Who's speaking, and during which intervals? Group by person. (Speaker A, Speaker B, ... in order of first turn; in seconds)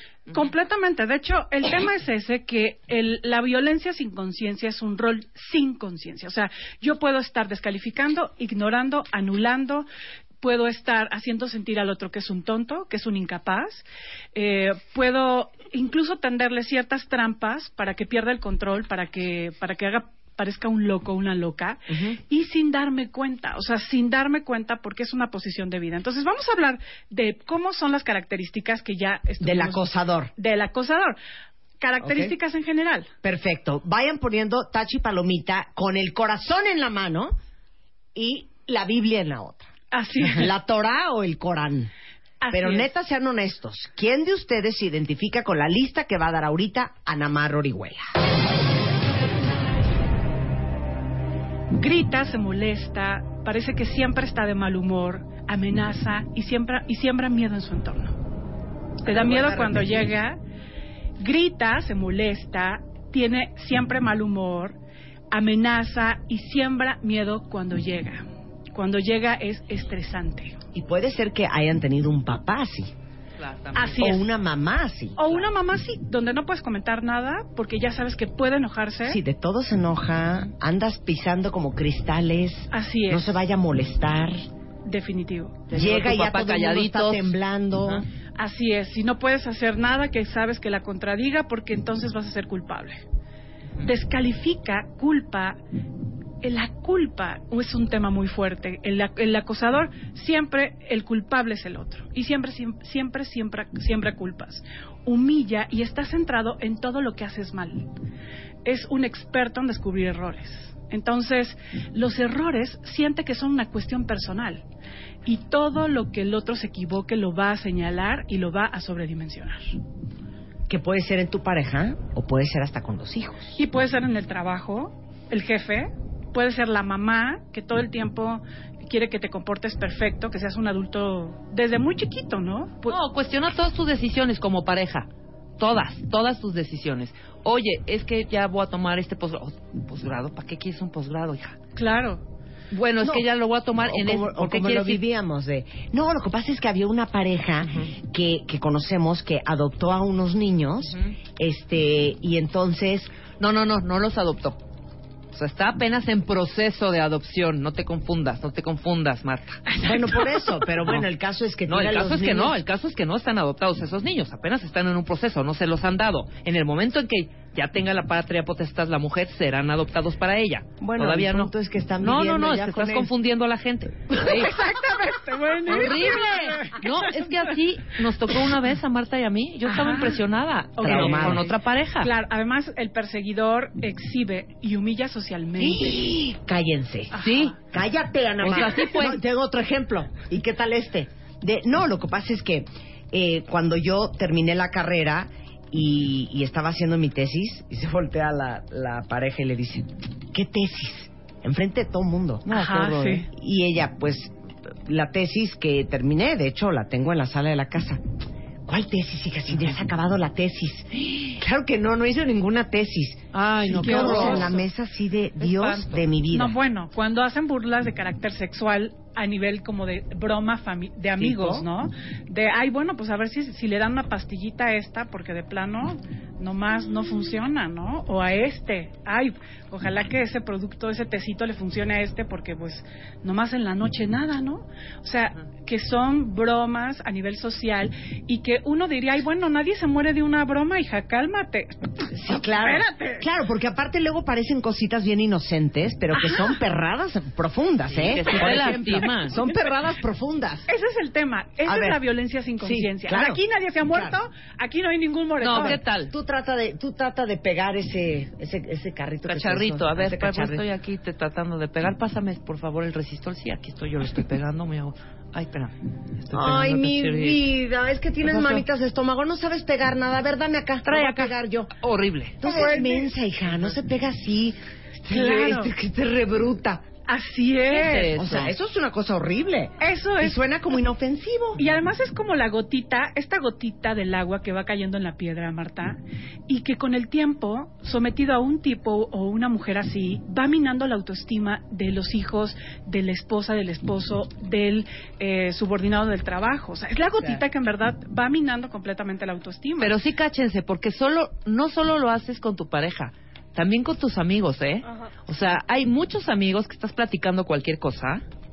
Speaker A: 0.3-9.9, 10.4-31.2, 31.8-33.1, 39.9-40.5, 42.4-42.9, 51.7-58.2, 59.0-60.4, 61.2-64.8, 65.3-70.6, 73.8-74.3, 75.2-79.2, 82.7-83.4, 84.8-85.7, 88.4-93.0, 93.8-95.6, 96.4-107.8, 108.7-114.6, 115.2-119.8, 123.5-133.0, 141.8-142.2, 174.2-177.1, 179.7-180.2, 180.8-186.2, 187.1-187.6, 202.5-203.3, 213.7-214.6, 216.3-241.7, 242.4-243.3, 246.1-246.6, 248.4-249.6, 250.7-255.8, 272.4-273.1, 275.1-275.7, 277.1-278.1, 279.8-280.4, 281.6-300.0
Speaker B: 21.9-22.2, 29.4-30.3, 32.0-32.3, 33.2-37.4, 38.1-39.7, 40.2-41.9, 42.5-48.1, 59.1-60.1, 70.7-72.9, 74.0-75.2, 79.0-84.4, 85.7-88.0, 120.7-123.5, 143.8-153.1, 159.7-162.6, 170.8-173.1, 180.8-181.4, 185.6-204.3, 204.9-208.0, 208.7-216.6, 221.2-221.7, 242.1-250.7, 251.7-252.0, 252.6-254.2, 255.6-260.6, 266.3-271.7, 272.4-276.9, 278.1-281.6
Speaker C: 73.4-74.2, 85.7-88.0, 132.9-135.1, 135.6-141.6, 142.7-145.0, 153.4-154.6, 155.3-159.7, 161.7-174.6, 175.7-182.1, 187.1-187.6, 188.4-189.2, 213.3-214.7, 215.4-216.1, 247.9-249.4, 255.4-256.1, 259.3-267.4, 268.2-268.6, 270.9-272.4, 277.7-278.5, 299.8-308.2